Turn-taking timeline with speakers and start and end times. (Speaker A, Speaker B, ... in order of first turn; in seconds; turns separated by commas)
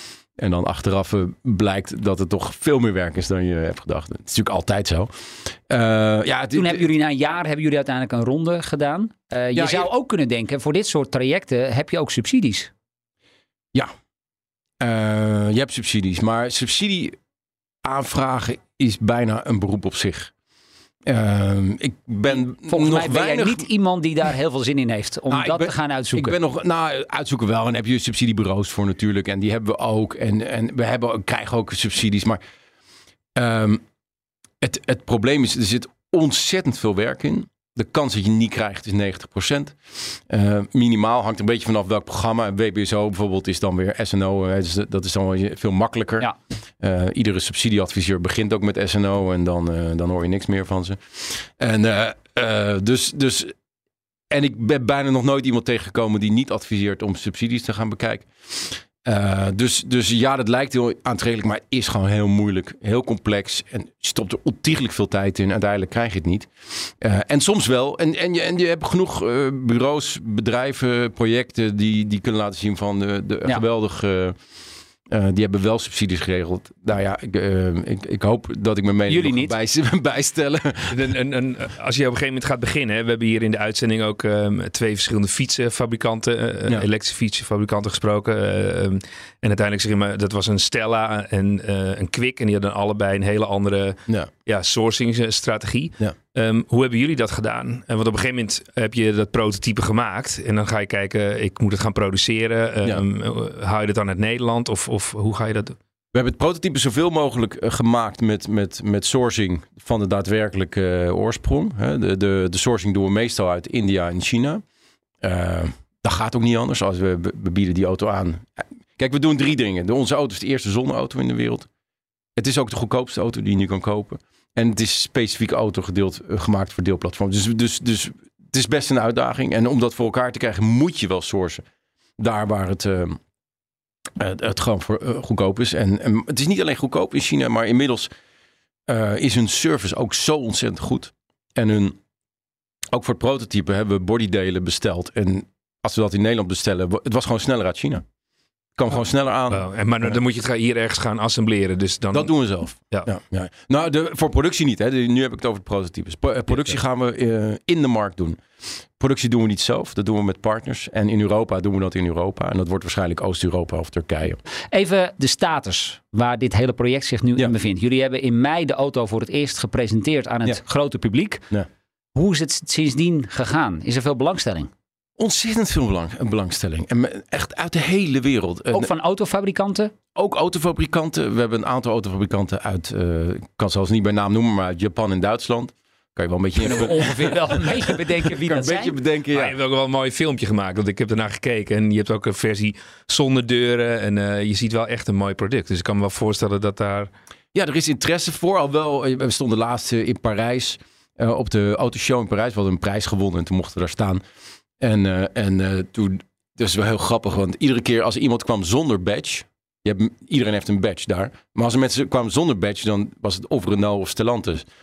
Speaker A: 0.4-6.9, Speaker B: 6.5-12.7, Speaker A: 9.6-9.9, Speaker A: 14.8-17.2, Speaker A: 17.8-20.3, Speaker A: 21.1-23.7, Speaker B: 22.6-26.4, Speaker A: 25.3-32.4, Speaker A: 33.4-33.8, Speaker A: 34.6-46.3, Speaker A: 46.8-53.5, Speaker A: 54.3-74.4, Speaker A: 75.1-81.0, Speaker B: 79.1-79.5, Speaker C: 80.9-105.8, Speaker A: 106.1-114.6, Speaker A: 115.2-121.7, Speaker A: 122.4-131.6, Speaker A: 132.2-133.2, Speaker A: 134.2-138.1, Speaker A: 138.9-142.0, Speaker A: 142.9-148.1, Speaker A: 148.8-150.2, Speaker C: 149.5-152.3, Speaker A: 152.1-158.4, Speaker A: 159.0-164.4, Speaker B: 164.7-171.5, Speaker B: 172.2-174.7, Speaker A: 175.2-178.9, Speaker B: 178.7-179.9, Speaker A: 180.2-189.6, Speaker B: 186.6-189.0, Speaker C: 189.3-197.1, Speaker A: 197.5-204.2, Speaker A: 204.8-214.7